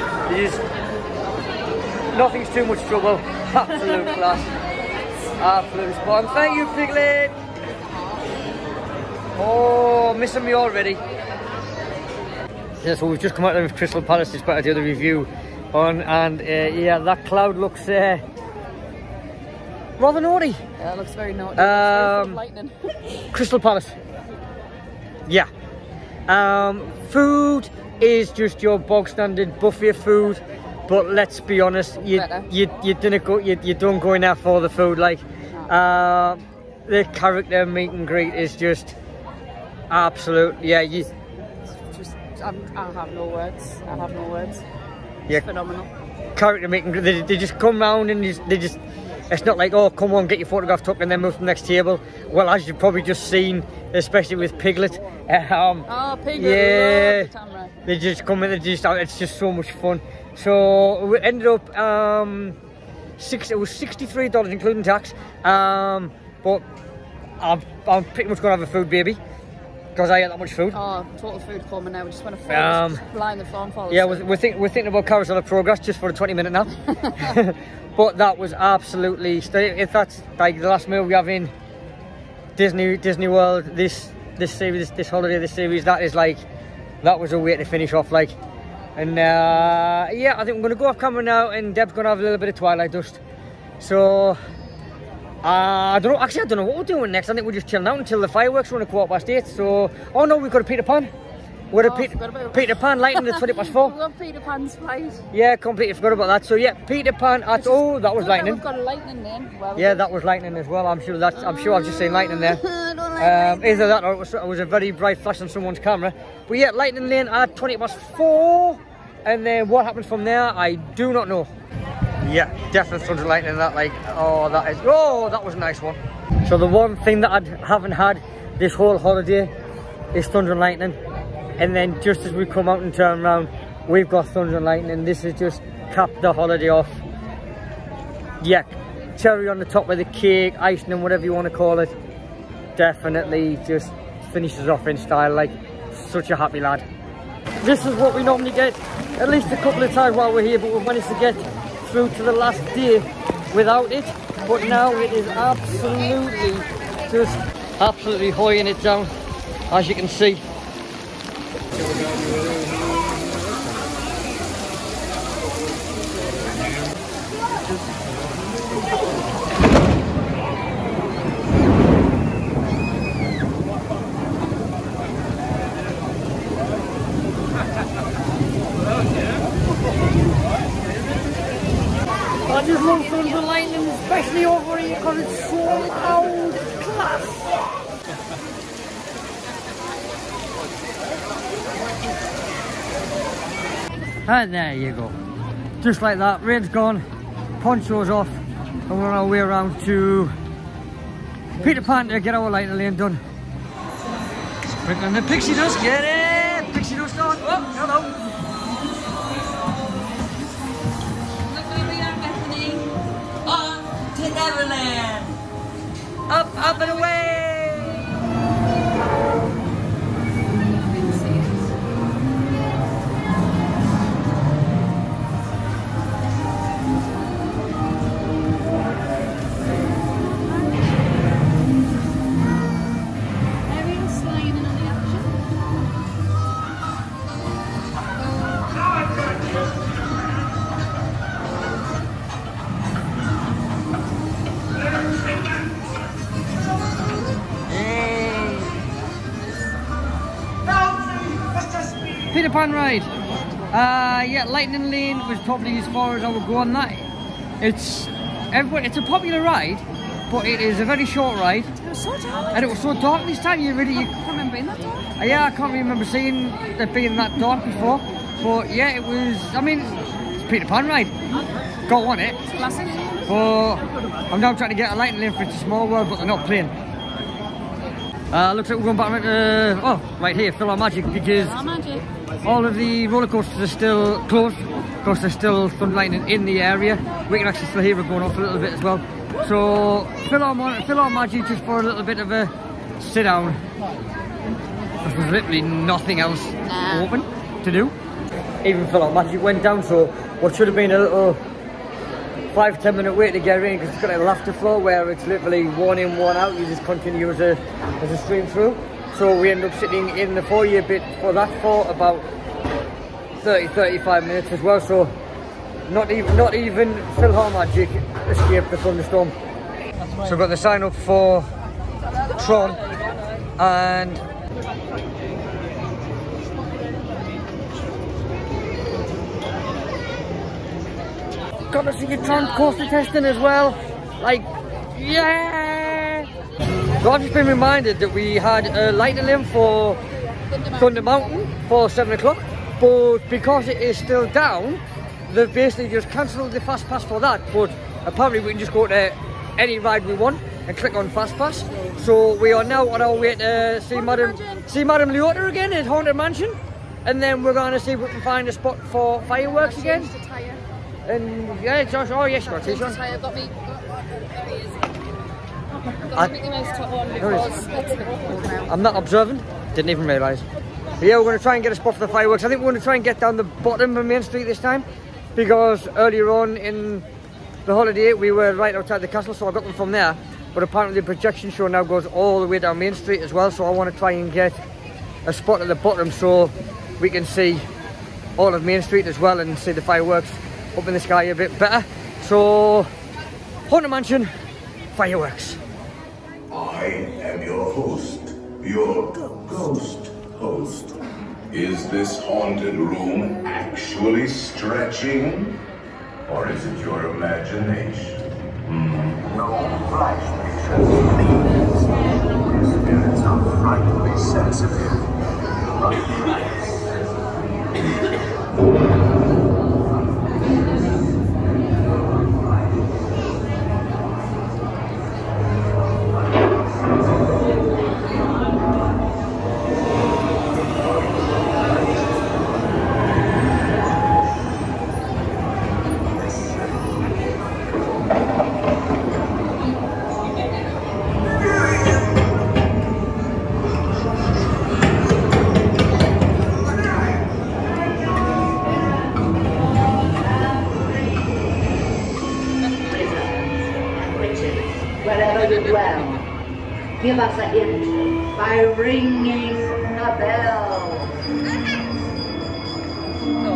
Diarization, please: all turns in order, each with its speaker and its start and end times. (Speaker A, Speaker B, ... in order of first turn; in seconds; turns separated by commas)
Speaker A: 0.3-0.6, Speaker A: 2.1-4.5, Speaker A: 5.4-7.3, Speaker A: 9.4-11.0, Speaker A: 12.8-18.2, Speaker A: 20.0-20.6, Speaker B: 20.8-22.9, Speaker A: 21.6-22.4, Speaker A: 23.3-24.0, Speaker A: 26.3-39.0, Speaker B: 32.1-32.5, Speaker A: 39.9-41.1, Speaker B: 41.7-44.6, Speaker B: 45.3-45.9, Speaker A: 46.4-48.8, Speaker A: 49.3-57.3, Speaker B: 55.9-57.7, Speaker A: 57.9-62.5, Speaker A: 63.2-66.6, Speaker A: 67.4-69.2, Speaker A: 70.0-70.8, Speaker B: 70.7-74.3, Speaker A: 72.5-73.0, Speaker A: 73.9-81.5, Speaker A: 82.6-86.5, Speaker A: 87.0-88.4, Speaker A: 89.0-93.2, Speaker A: 93.8-94.4, Speaker A: 95.4-101.1, Speaker A: 101.7-103.9, Speaker B: 101.7-105.2, Speaker A: 105.3-108.6, Speaker B: 107.6-110.1, Speaker A: 109.8-112.6, Speaker B: 111.4-114.0, Speaker A: 113.2-121.5, Speaker A: 122.2-129.5, Speaker A: 130.1-131.0, Speaker A: 131.6-137.0, Speaker A: 138.4-141.9, Speaker A: 142.8-146.8, Speaker A: 147.6-159.1, Speaker A: 159.7-160.4, Speaker A: 182.5-187.4, Speaker A: 194.3-195.2, Speaker A: 195.8-197.1, Speaker A: 197.6-198.4, Speaker A: 198.9-200.3, Speaker A: 201.6-203.2, Speaker A: 204.8-208.1, Speaker B: 211.5-212.9, Speaker A: 213.5-215.3, Speaker A: 216.3-218.1, Speaker B: 216.6-217.4, Speaker B: 220.8-221.7, Speaker B: 233.7-235.3, Speaker A: 247.7-248.7, Speaker A: 252.3-253.1, Speaker A: 253.7-257.1, Speaker A: 257.6-261.7, Speaker B: 261.8-262.7, Speaker A: 262.5-264.1, Speaker B: 264.0-265.1, Speaker A: 265.2-271.1, Speaker A: 271.9-272.4, Speaker B: 272.5-273.3, Speaker A: 273.3-276.7, Speaker A: 278.3-281.6, Speaker B: 281.1-282.1, Speaker A: 282.4-293.6, Speaker A: 295.0-297.9, Speaker B: 296.6-297.1, Speaker A: 298.6-301.4, Speaker A: 302.5-312.3, Speaker A: 313.4-315.1, Speaker A: 315.9-319.4, Speaker A: 320.2-321.5, Speaker A: 322.3-322.8, Speaker A: 323.6-324.2, Speaker A: 331.7-336.3, Speaker A: 337.0-340.0, Speaker B: 340.5-341.3, Speaker A: 340.8-360.1, Speaker B: 353.9-354.7, Speaker B: 359.6-360.6, Speaker A: 361.1-363.0, Speaker B: 362.5-364.9, Speaker B: 366.0-368.7, Speaker A: 367.2-367.6, Speaker A: 368.7-370.5, Speaker A: 371.0-374.9, Speaker A: 375.4-377.1, Speaker A: 377.7-384.6, Speaker A: 385.3-387.7, Speaker A: 388.4-392.9, Speaker A: 393.7-394.3, Speaker A: 395.0-395.6, Speaker C: 396.5-405.6, Speaker C: 406.3-415.1, Speaker C: 415.6-416.8, Speaker D: 448.4-451.7, Speaker D: 452.8-456.2, Speaker D: 457.0-461.1